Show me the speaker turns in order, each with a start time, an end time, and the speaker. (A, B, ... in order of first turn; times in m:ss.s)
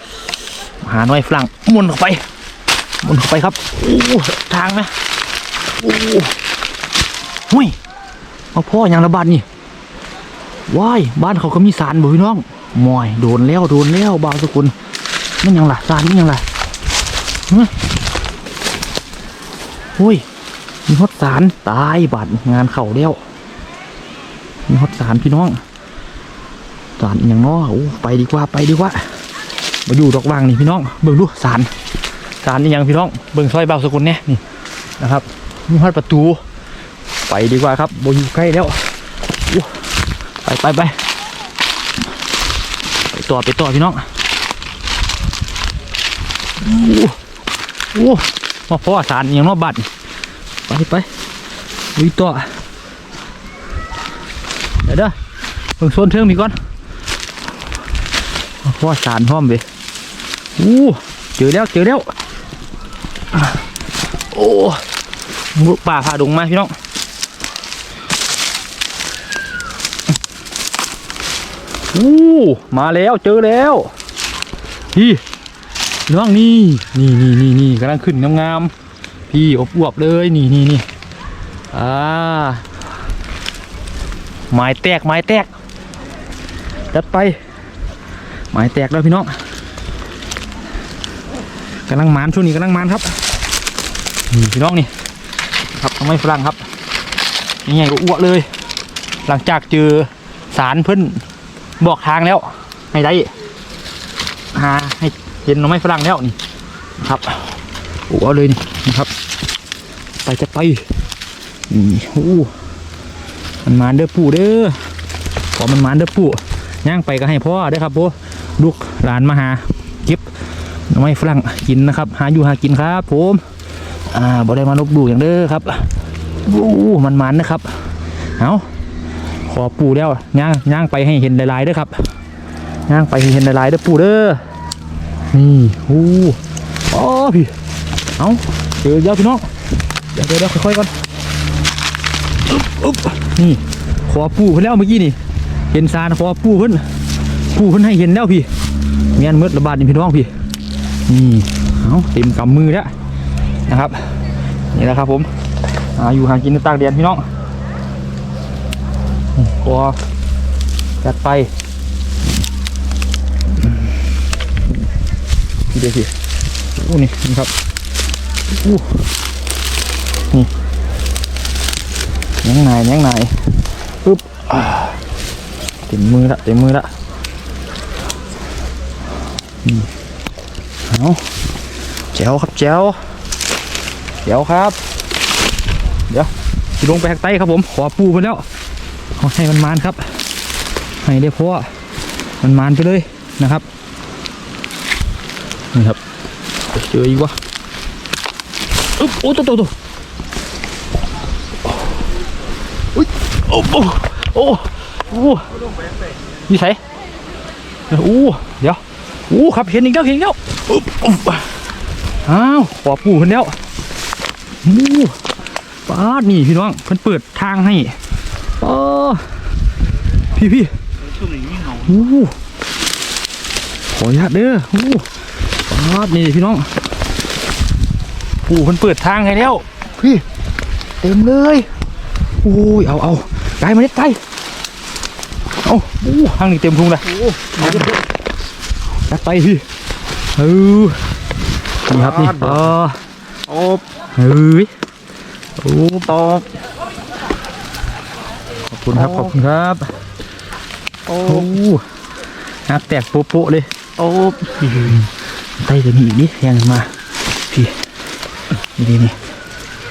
0:00.6-0:02.2 A
0:03.0-0:04.9 A
0:05.8-0:06.3 A
0:07.5-0:07.8 A
0:08.5-0:09.4 A
0:10.7-0:14.7 A
0:15.4-0:16.4 A
0:20.0-0:20.2 A
0:20.9-0:23.2 A
0:24.7-0:25.6 A
0:27.0-0:29.1 A
0:29.8-0:31.7 A
0:32.4-0:34.4 A
0:35.0-0:36.4 A
0:37.2-0:38.9 A
0:39.5-0:39.9 A
0:40.4-0:41.0 A
0:43.1-0:44.1 A
0:46.6-0:47.2 A
0:47.9-0:49.9 A
0:50.7-0:51.1 A
0:51.9-0:52.5 A
0:54.8-0:55.1 A
0:55.8-0:56.6 A
0:58.6-0:59.6 A
1:00.6-1:02.1 A
1:04.3-1:04.8 A
1:05.5-1:06.7 A
1:11.9-1:13.9 A
1:14.9-1:15.2 A
1:16.1-1:18.7 A
1:19.3-1:20.8 A
1:21.7-1:22.6 A
1:24.5-1:25.5 A
1:26.9-1:27.4 A
1:28.5-1:29.4 A
1:31.9-1:33.2 A
1:34.3-1:34.9 A
1:35.7-1:36.6 A
1:37.6-1:38.5 A
1:39.2-1:41.2 A
1:41.8-1:43.3 A
1:44.5-1:46.4 A
1:47.0-1:47.5 A
1:48.1-1:49.1 A
1:50.2-1:50.8 A
1:51.7-1:52.5 A
1:53.6-1:54.8 A
1:55.5-2:00.2 A
2:00.9-2:03.4 A
2:04.1-2:05.9 A
2:06.4-2:07.8 A
2:08.4-2:08.7 A
2:09.4-2:12.1 A
2:12.9-2:14.4 A
2:15.3-2:16.4 A
2:16.9-2:17.5 A
2:18.2-2:19.5 A
2:20.1-2:20.9 A
2:22.5-2:25.2 A
2:25.7-2:26.8 A
2:27.5-2:28.5 A
2:29.1-2:30.3 A
2:31.1-2:32.9 A
2:33.7-2:34.1 A
2:34.7-2:35.3 A
2:36.0-2:37.2 A
2:39.4-2:40.0 A
2:41.0-2:41.5 A
2:45.7-2:46.1 A
2:46.8-2:47.5 A
2:48.5-2:49.0 A
2:52.4-2:55.0 A
2:55.9-2:56.9 A
3:00.9-3:01.2 A
3:02.1-3:03.0 A
3:04.2-3:04.8 A
3:06.1-3:08.4 A
3:09.2-3:10.1 A
3:11.0-3:11.7 A
3:12.4-3:13.6 A
3:15.7-3:16.0 A
3:16.7-3:17.4 A
3:19.0-3:19.7 A
3:23.0-3:25.5 A
3:26.5-3:26.8 A
3:27.9-3:31.5 A
3:32.2-3:33.6 A
3:34.6-3:35.2 A
3:35.9-3:38.0 A
3:38.6-3:39.4 A
3:40.3-3:40.7 A
3:41.3-3:41.7 B
3:41.7-3:42.4 A
3:43.9-3:45.1 A
3:45.7-3:46.7 A
3:48.4-3:50.2 A
3:51.0-3:51.7 A
3:52.4-3:54.2 A
3:55.6-3:57.9 A
3:57.1-3:58.0 B
3:59.1-3:59.6 A
4:00.3-4:01.0 A
4:01.8-4:03.0 A
4:01.9-4:02.6 B
4:03.5-4:03.8 B
4:04.2-4:04.7 A
4:05.6-4:06.4 A
4:06.1-4:06.4 B
4:08.7-4:09.9 A
4:08.9-4:09.3 B
4:11.1-4:11.5 B
4:11.2-4:11.8 A
4:12.7-4:13.7 A
4:14.0-4:15.0 B
4:14.9-4:16.9 A
4:17.4-4:17.8 A
4:18.7-4:19.2 A